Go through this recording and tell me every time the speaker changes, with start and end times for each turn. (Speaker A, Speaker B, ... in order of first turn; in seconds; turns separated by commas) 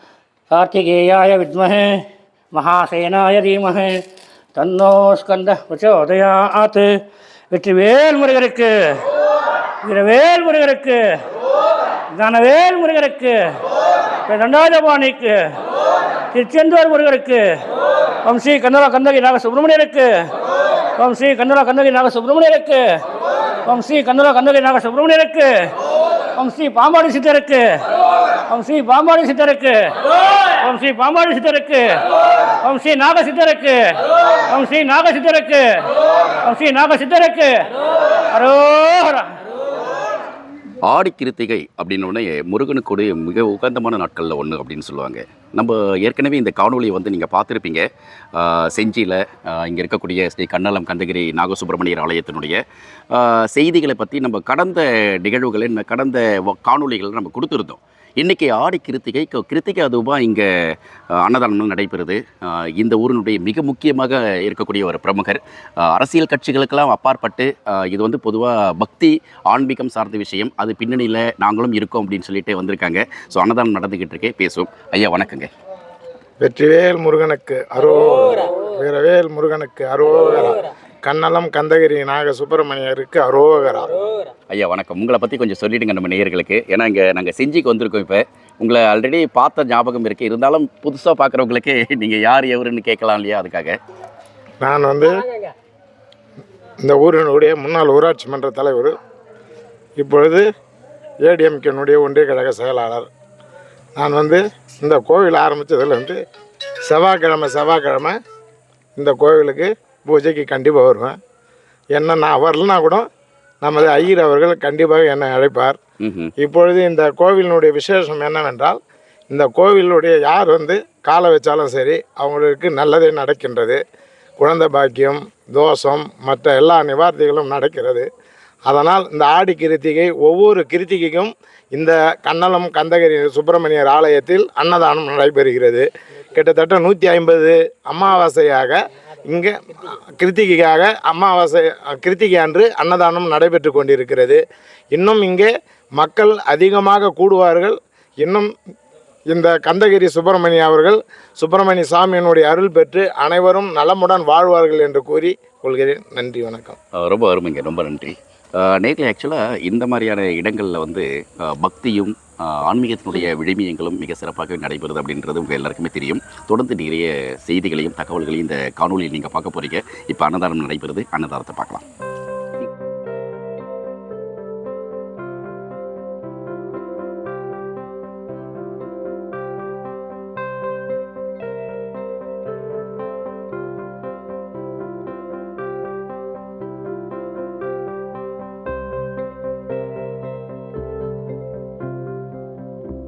Speaker A: 0.5-4.0, Speaker A: 4.5-6.9, Speaker A: 7.5-9.0, Speaker A: 9.8-11.0, Speaker A: 12.1-13.6, Speaker A: 14.3-15.6, Speaker A: 16.3-17.6, Speaker A: 18.2-20.3, Speaker A: 21.0-23.0, Speaker A: 23.6-25.7, Speaker A: 26.4-27.8, Speaker A: 28.5-32.0, Speaker A: 32.6-37.7, Speaker A: 38.3-39.3, Speaker B: 40.8-52.6, Speaker B: 53.1-75.5, Speaker C: 76.4-83.9, Speaker B: 84.5-93.8, Speaker C: 94.6-95.1, Speaker C: 96.8-98.9, Speaker C: 100.0-100.5, Speaker C: 101.2-103.1, Speaker C: 104.0-106.2, Speaker C: 106.9-108.2, Speaker C: 109.0-111.2, Speaker C: 111.9-113.0, Speaker C: 113.6-115.8, Speaker B: 116.0-116.3, Speaker C: 116.4-118.8, Speaker C: 119.3-123.8, Speaker C: 124.4-128.1, Speaker C: 128.7-144.4, Speaker C: 144.9-148.5, Speaker C: 149.3-156.8, Speaker B: 156.9-171.8